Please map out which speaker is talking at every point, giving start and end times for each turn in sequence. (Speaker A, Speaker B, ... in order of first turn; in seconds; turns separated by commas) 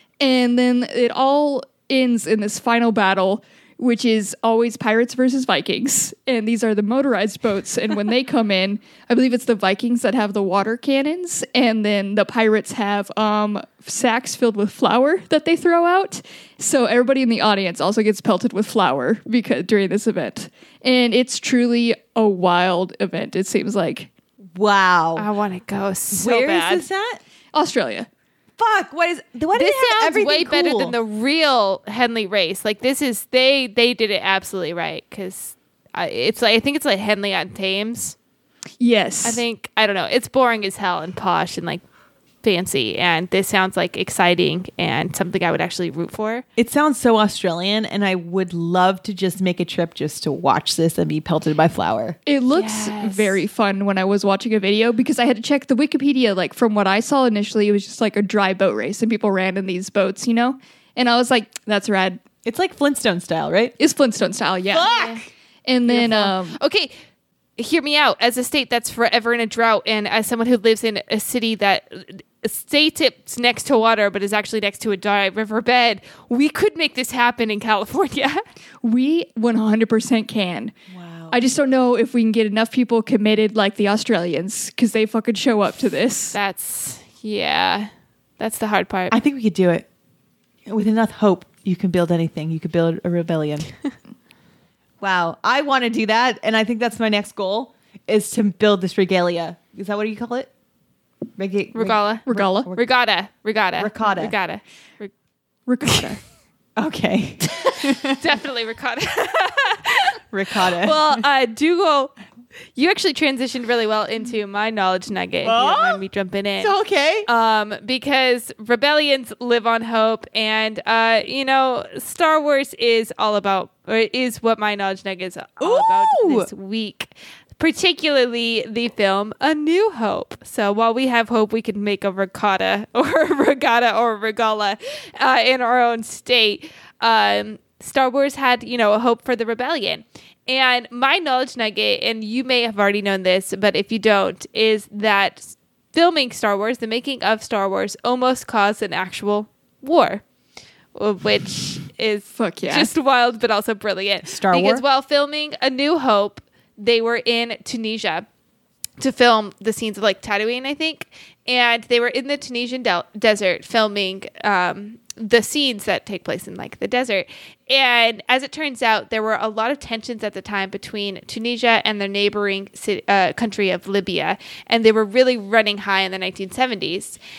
Speaker A: 0.2-24.1, Speaker B: 24.6-25.2, Speaker C: 25.1-26.9, Speaker B: 26.1-27.2, Speaker A: 27.5-28.1, Speaker B: 28.6-30.9, Speaker C: 29.5-38.1, Speaker A: 38.8-39.4, Speaker C: 39.2-41.8, Speaker C: 42.4-46.4, Speaker B: 46.6-53.4, Speaker A: 52.2-62.2, Speaker B: 62.4-63.7, Speaker A: 63.8-64.9, Speaker B: 64.7-65.3, Speaker C: 64.8-65.2, Speaker A: 65.7-66.6, Speaker C: 65.9-66.9, Speaker C: 67.6-78.4, Speaker A: 78.8-80.7, Speaker B: 80.9-81.4, Speaker A: 81.3-86.3, Speaker C: 86.3-89.1, Speaker B: 89.1-89.8, Speaker B: 90.7-93.7, Speaker B: 95.0-100.5, Speaker B: 101.4-102.8, Speaker C: 101.7-105.1, Speaker A: 102.3-102.7, Speaker B: 103.8-104.3, Speaker A: 105.7-106.2, Speaker B: 106.8-108.2, Speaker C: 108.2-110.2, Speaker B: 110.3-111.2, Speaker C: 110.8-112.1, Speaker C: 112.8-116.7, Speaker B: 115.4-116.0, Speaker B: 116.6-117.3, Speaker C: 117.2-150.2, Speaker B: 125.6-126.5, Speaker C: 150.9-158.2, Speaker A: 152.3-152.9, Speaker B: 154.2-154.8, Speaker C: 159.0-177.2